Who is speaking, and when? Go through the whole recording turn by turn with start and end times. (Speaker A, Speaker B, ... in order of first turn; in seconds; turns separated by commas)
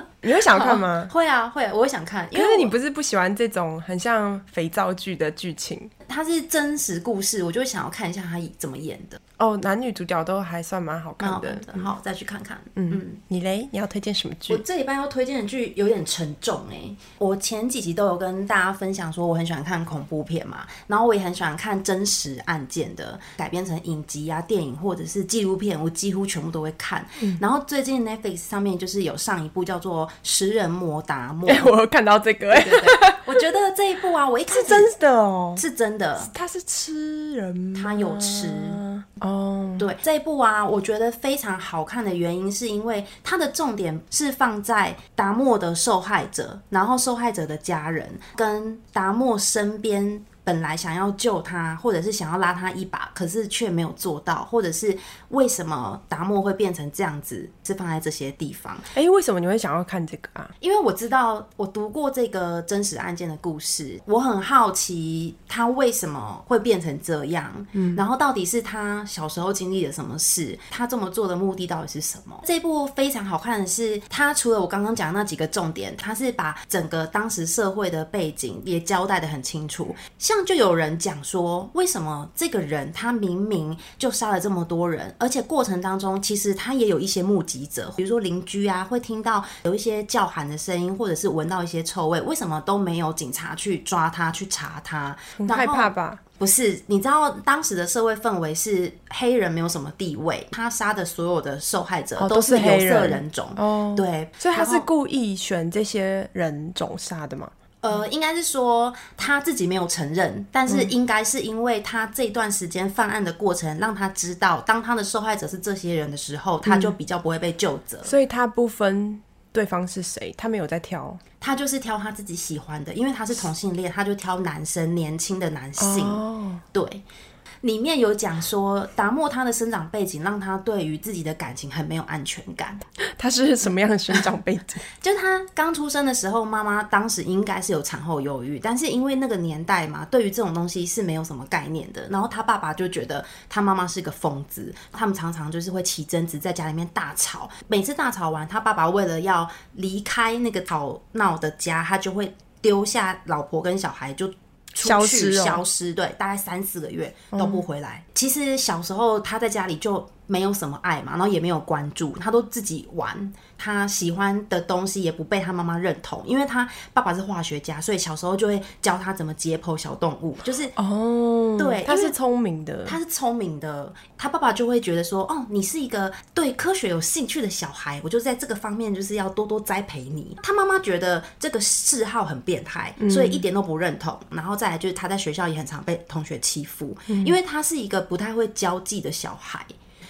Speaker A: 0.2-1.1, Speaker B: 0.5-2.8, Speaker A: 2.3-5.9, Speaker B: 6.0-9.2, Speaker A: 9.4-11.8, Speaker B: 11.2-13.2, Speaker A: 12.8-14.6, Speaker B: 14.5-31.7, Speaker A: 31.5-33.3, Speaker B: 32.5-34.9, Speaker A: 34.5-35.6, Speaker B: 35.6-36.3, Speaker A: 36.2-39.9, Speaker B: 37.8-38.8, Speaker B: 39.8-58.9, Speaker A: 58.9-60.5, Speaker B: 60.6-104.9, Speaker A: 67.8-68.0, Speaker A: 95.4-96.2, Speaker A: 102.2-107.5, Speaker B: 107.8-118.1, Speaker A: 116.7-116.9, Speaker A: 118.0-121.2, Speaker B: 121.4-127.0, Speaker A: 125.8-126.6, Speaker B: 127.6-132.8, Speaker A: 133.0-134.8, Speaker B: 135.0-170.7, Speaker A: 154.8-155.6, Speaker A: 157.3-157.6, Speaker A: 170.8-173.0, Speaker B: 171.6-172.2, Speaker B: 172.8-189.7, Speaker A: 183.0-183.4, Speaker A: 187.1-187.3